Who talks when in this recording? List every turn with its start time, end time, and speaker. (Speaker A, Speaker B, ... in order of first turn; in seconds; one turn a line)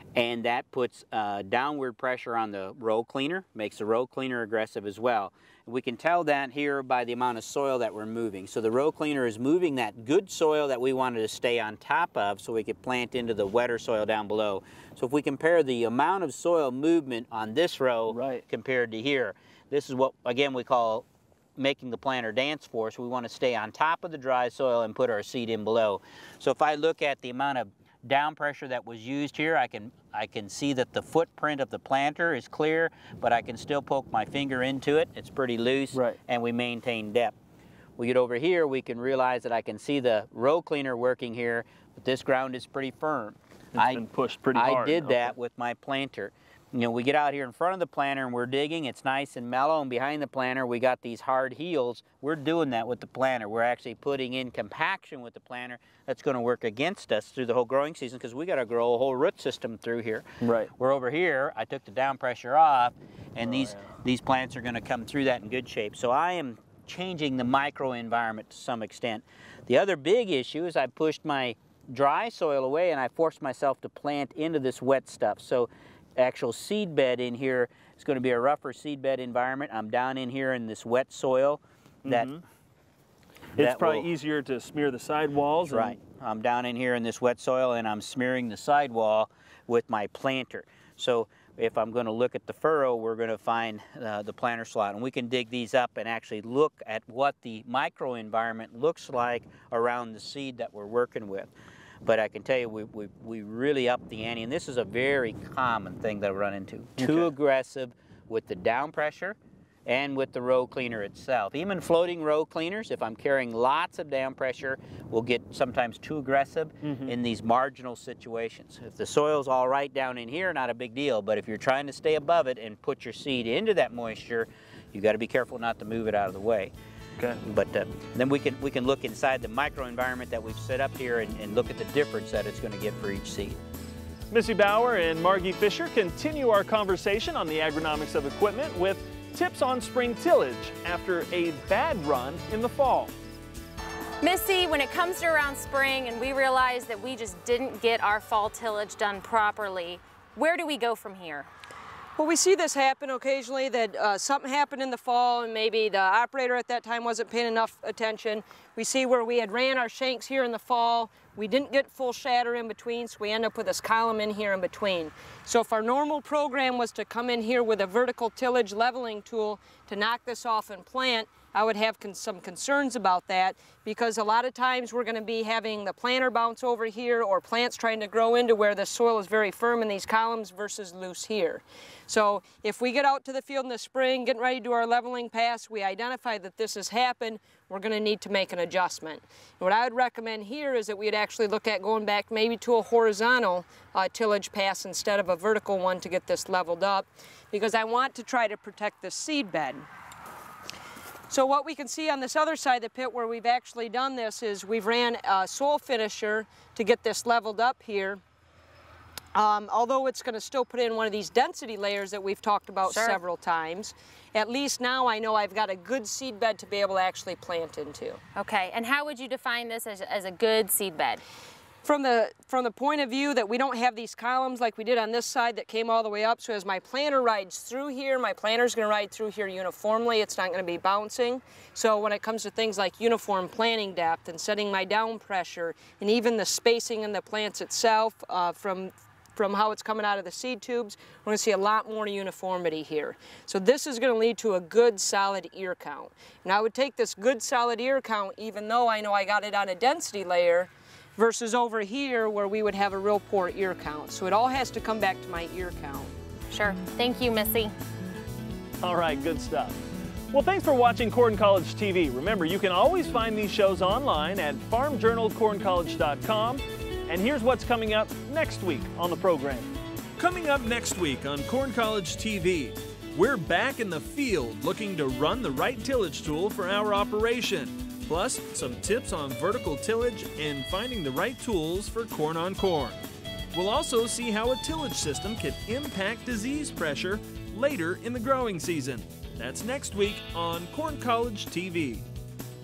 Speaker A: 0.1-21.0
Speaker B: 18.1-18.4
Speaker A: 21.6-37.3
Speaker B: 35.9-36.2
Speaker A: 38.0-60.2
Speaker B: 43.8-45.3
Speaker B: 60.4-60.7
Speaker A: 60.8-82.3
Speaker B: 63.4-64.0
Speaker B: 82.0-82.4
Speaker B: 83.6-86.0
Speaker A: 83.6-84.0
Speaker A: 85.6-101.5
Speaker A: 102.0-126.7
Speaker B: 107.0-107.3
Speaker B: 116.8-117.2
Speaker A: 127.4-133.6
Speaker B: 134.3-143.1
Speaker C: 144.2-151.5
Speaker D: 152.2-199.9
Speaker D: 201.3-208.2
Speaker D: 209.3-218.2
Speaker C: 212.8-213.2
Speaker C: 218.3-221.2
Speaker D: 221.8-256.1
Speaker C: 256.5-257.7
Speaker B: 258.8-259.8
Speaker B: 260.3-269.7
Speaker E: 270.2-283.0
Speaker E: 283.5-292.0